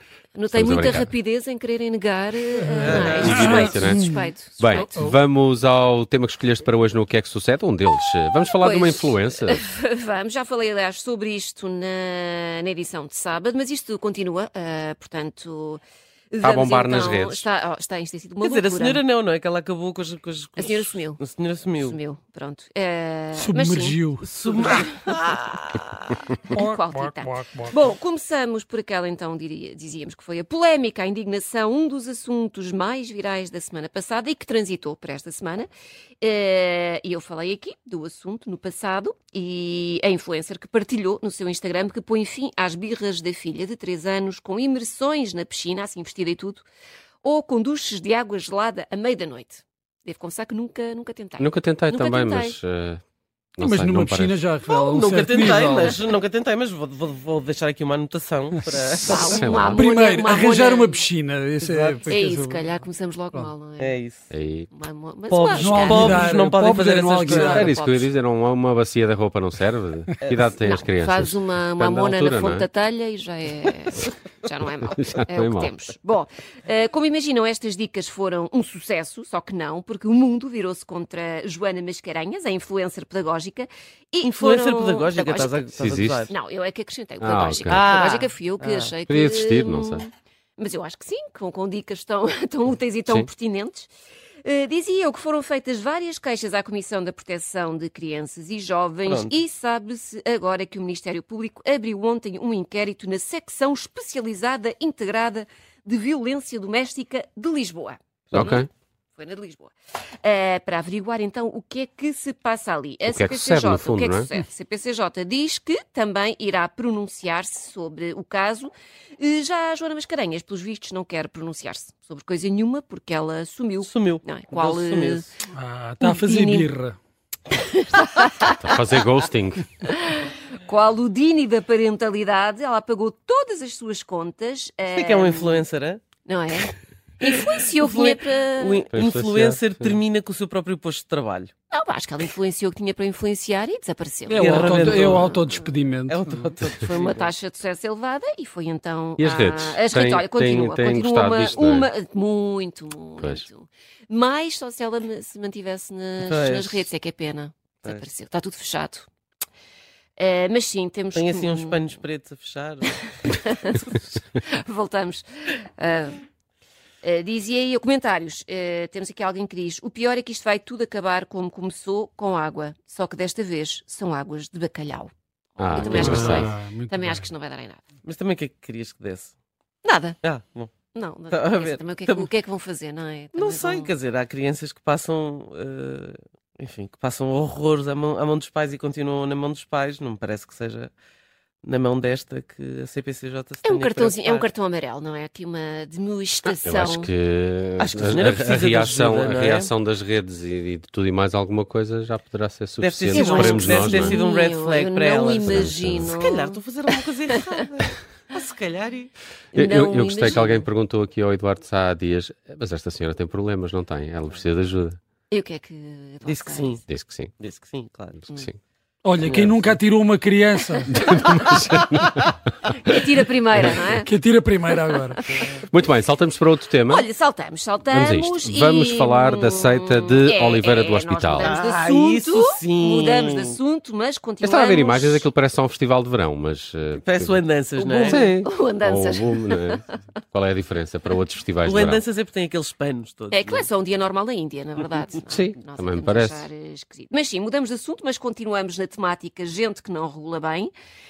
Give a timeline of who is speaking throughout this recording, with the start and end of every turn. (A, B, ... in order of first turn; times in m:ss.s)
0:00.3-0:05.0 A
0:00.5-0:01.1 B
0:02.6-0:05.2 C
0:02.8-0:03.6 D
0:03.1-0:09.6 B
0:08.6-0:15.8 A
0:16.3-0:19.0 A
0:16.4-0:17.4 B
0:18.4-0:22.0 D
0:20.6-0:21.2 A
0:21.8-0:35.7 A
0:23.4-0:24.3 C
0:24.2-0:25.6 D
0:26.5-0:27.8 C
0:36.2-0:46.6 A
0:47.2-0:52.6 A
0:51.4-0:53.0 B
0:53.6-0:54.4 B
0:53.6-0:56.0 C
0:54.7-0:59.4 D
0:59.0-1:01.1 A
0:59.0-1:02.7 C
0:59.2-0:59.8 B
1:01.6-1:02.0 D
1:02.0-1:04.0 A
1:03.8-1:04.3 D
1:04.3-1:04.7 B
1:04.7-1:06.3 A
1:05.3-1:07.8 C
1:05.6-1:07.7 D
1:07.3-1:08.1 A
1:07.5-1:12.6 B
1:10.6-1:25.7 A
1:14.9-1:15.7 B
1:24.2-1:26.3 D
1:25.8-1:26.3 B
1:26.3-1:33.9 A
1:27.2-1:27.9 B
1:27.7-1:28.9 D
1:29.1-1:30.0 B
1:34.4-2:05.3 A
1:39.0-1:39.3 D
1:48.3-1:48.7 B
1:53.1-1:54.3 B
2:03.8-2:05.3 D
2:05.5-2:07.0 C
2:06.0-2:06.7 A
2:07.5-2:08.9 A
2:08.4-2:09.6 B
2:09.8-2:15.7 A
2:14.9-2:16.0 D
2:16.2-2:18.9 A
2:17.2-2:21.5 D
2:18.9-2:20.0 B
2:21.7-2:25.8 A
2:24.3-2:26.5 C
2:24.3-2:25.4 D
2:26.1-2:27.3 D
2:26.8-2:39.1 A
2:29.2-2:31.9 B
2:36.2-2:36.9 D
2:40.2-2:41.8 A
2:41.1-2:43.0 D
2:43.2-2:46.2 A
2:47.0-2:57.8 A
2:55.6-2:56.5 B
2:55.8-2:56.2 D
2:55.9-2:57.3 C
2:58.0-2:59.3 D
2:59.8-3:00.2 A
3:00.2-3:00.7 D
3:00.9-3:03.9 A
3:01.3-3:02.3 D
3:03.3-3:10.9 D
3:11.6-3:14.5 D
3:13.6-3:17.1 A
3:16.6-3:24.2 B
3:17.8-3:19.7 D
3:22.8-3:29.1 D
3:23.1-3:26.6 A
3:25.4-3:26.2 B
3:29.5-3:35.0 B
3:29.5-3:30.7 A
3:35.3-3:36.8 A
3:36.2-3:36.8 D
3:36.8-3:37.3 B
3:37.4-3:38.2 D
3:38.2-3:38.6 B
3:39.0-3:41.0 C
3:39.2-3:39.8 D
3:40.9-3:43.0 B
3:41.1-3:41.4 A
3:42.7-3:44.1 A
3:44.0-3:45.2 C
3:45.1-3:45.4 A
3:45.6-3:47.1 B
3:46.9-3:55.3 A
3:47.9-3:51.5 B
3:51.4-3:53.6 D
3:54.4-4:02.0 B
3:56.9-3:58.3 D
3:58.0-4:00.0 A
4:01.6-4:03.7 D
4:03.3-4:10.7 A
4:05.3-4:06.4 B